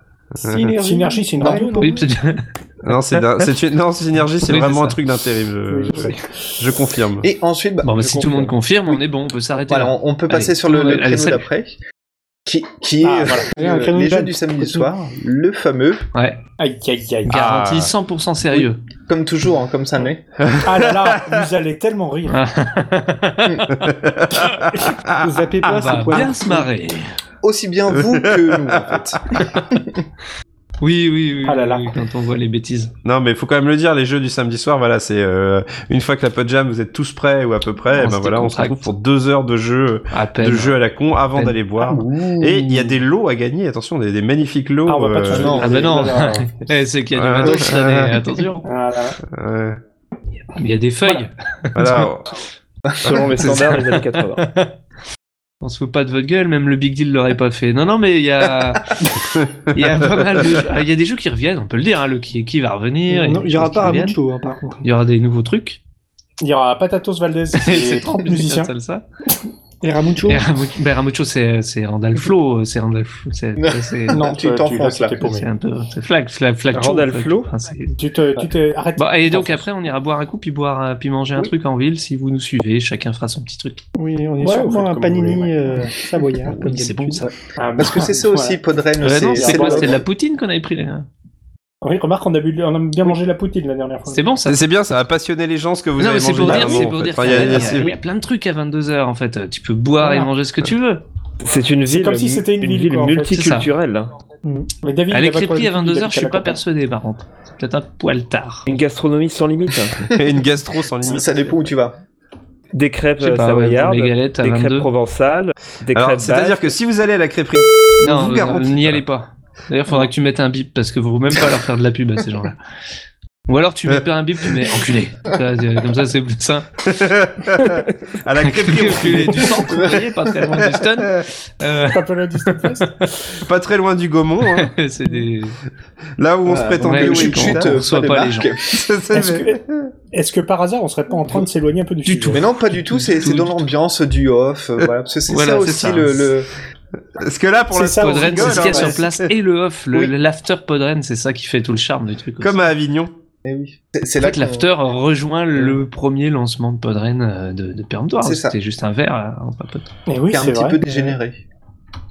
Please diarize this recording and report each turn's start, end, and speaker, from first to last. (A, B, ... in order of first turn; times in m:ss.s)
0:00.4-0:00.8 A
0:00.4-0:02.0 B
0:00.8-0:02.0 C
0:01.8-0:03.4 D
0:02.8-0:07.3 A
0:04.4-0:05.0 D
0:05.7-0:06.2 C
0:07.2-0:08.0 E
0:07.8-0:11.5 D
0:08.0-0:08.5 F
0:09.7-0:11.8 E
0:12.4-0:16.0 E
0:13.0-0:13.5 C
0:13.5-0:14.9 B
0:16.1-0:16.4 D
0:16.6-0:17.3 C
0:17.2-0:18.8 D
0:17.3-0:17.9 A
0:18.5-0:20.2 E
0:20.4-0:21.3 A
0:20.6-0:22.4 C
0:22.3-0:23.7 D
0:23.8-0:25.9 A
0:25.2-0:26.7 B
0:25.8-0:27.1 D
0:27.4-0:29.2 E
0:27.9-0:29.4 A
0:29.4-0:29.8 D
0:30.8-0:32.9 D
0:31.4-0:31.9 C
0:33.0-0:45.6 A
0:37.9-0:38.9 D
0:40.1-0:40.8 D
0:41.3-0:41.6 D
0:41.8-0:43.0 E
0:44.9-0:46.5 C
0:45.3-0:46.0 E
0:45.6-0:48.6 D
0:47.1-0:48.1 A
0:48.6-0:49.2 C
0:49.3-0:49.8 A
0:50.5-0:52.1 D
0:51.7-0:52.3 A
0:52.9-0:53.2 E
0:53.0-0:54.5 F
0:53.4-0:54.7 D
0:55.6-0:58.9 D
0:59.3-1:00.6 A
0:59.7-1:04.2 D
1:03.1-1:04.8 B
1:04.8-1:05.8 D
1:06.4-1:08.7 C
1:07.5-1:09.0 D
1:09.8-1:10.4 B
1:10.2-1:14.2 D
1:13.6-1:15.2 E
1:14.1-1:15.5 C
1:15.2-1:17.9 D
1:16.7-1:17.5 F
1:17.9-1:19.6 C
1:19.0-1:23.8 D
1:24.0-1:27.3 B
1:24.4-1:25.9 C
1:26.5-1:27.3 D
1:27.2-1:30.0 E
1:27.6-1:28.6 C
1:29.0-1:31.1 D
1:29.3-1:30.0 C
1:31.8-1:34.2 C
1:34.1-1:34.6 D
1:34.4-1:37.9 A
1:36.0-1:41.0 D
1:37.3-1:37.7 E
1:41.4-1:44.1 F
1:41.8-1:43.4 C
1:43.3-1:43.7 D
1:44.6-1:46.6 C
1:45.1-1:48.7 D
1:48.6-1:50.1 F
1:50.1-1:51.6 A
1:51.0-1:52.0 E
1:52.7-1:56.7 F
1:53.2-1:54.9 D
1:55.9-1:59.0 A
1:58.0-2:02.6 D
2:03.5-2:06.7 D
2:06.8-2:09.8 A
2:08.4-2:12.8 D
2:09.7-2:10.0 E
2:10.7-2:11.3 A
2:11.9-2:13.4 C
2:13.4-2:14.7 A
2:14.5-2:15.6 D
2:16.2-2:17.8 A
2:16.4-2:18.8 E
2:16.8-2:18.5 D
2:18.7-2:19.9 A
2:19.1-2:19.6 C
2:20.1-2:22.4 C
2:22.0-2:23.7 D
2:22.3-2:26.5 E
2:25.3-2:26.3 D
2:27.2-2:29.3 A
2:27.7-2:28.9 C
2:28.0-2:32.6 D
2:32.4-2:33.1 A
2:33.4-2:34.7 E
2:34.2-2:39.9 D
2:38.2-2:38.6 E
2:40.1-2:41.2 C
2:40.3-2:41.4 E